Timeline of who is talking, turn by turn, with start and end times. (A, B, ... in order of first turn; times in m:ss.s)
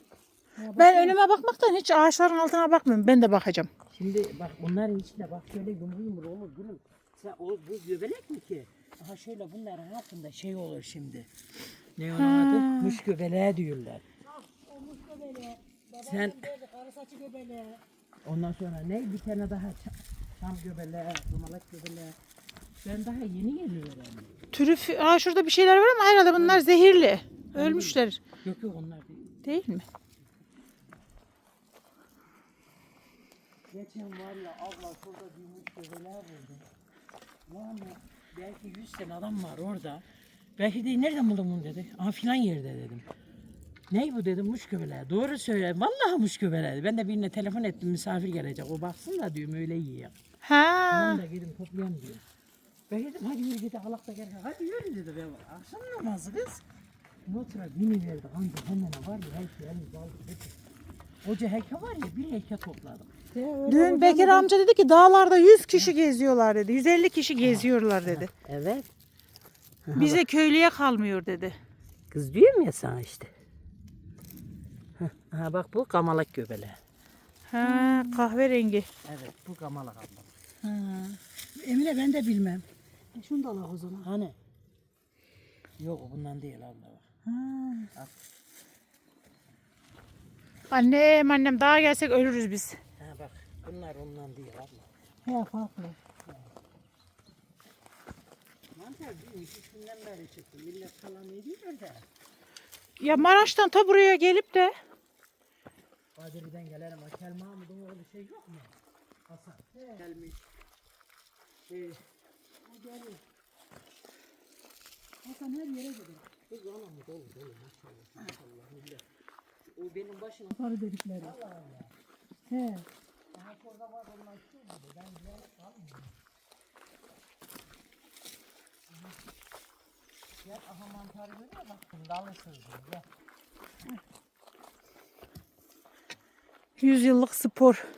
0:00.6-0:01.2 A
0:00.8-0:03.7 B
0:03.9-0:11.3 C
0:12.0-0:14.0 C
0:12.2-0:13.0 B
0:14.2-0:17.8 A
0:16.0-0:16.4 C
0:18.2-0:22.2 C
0:22.8-0:24.4 C
0:24.5-0:28.2 B
0:26.3-0:26.7 C
0:27.5-0:29.4 C
0:29.4-0:29.8 B
0:33.7-0:36.6 C
0:37.5-0:40.0 C
0:40.6-0:43.0 C
0:43.9-0:50.1 C
0:50.4-0:51.2 B
0:50.9-0:52.2 C
0:52.9-0:56.6 C
0:57.2-1:00.6 C
1:01.2-1:03.1 C
1:03.3-1:04.5 A
1:03.7-1:08.3 B
1:07.4-1:08.9 C
1:09.8-1:10.2 C
1:09.9-1:11.6 B
1:12.1-1:13.3 C
1:15.0-1:16.8 C
1:17.5-1:18.9 B
1:17.6-1:18.3 A
1:19.0-1:20.3 C
1:20.6-1:24.1 A
1:24.0-1:24.4 C
1:25.8-1:27.0 C
1:27.2-1:27.9 B
1:30.7-1:32.8 B
1:33.0-1:34.9 C
1:35.2-1:36.0 B
1:36.2-1:36.5 C
1:38.7-1:42.0 C
1:43.0-1:44.7 B
1:43.0-1:43.5 C
1:46.2-1:48.7 C
1:49.3-1:50.4 C
1:51.7-1:52.0 C
1:52.7-1:53.2 C
1:55.2-1:56.3 A
1:56.5-1:59.0 C
1:59.6-2:00.6 C
2:00.6-2:01.3 A
2:01.2-2:01.9 C
2:02.5-2:02.8 B
2:02.6-2:02.8 A
2:03.3-2:06.2 C
2:08.9-2:09.2 C
2:10.4-2:13.0 C
2:16.8-2:17.8 B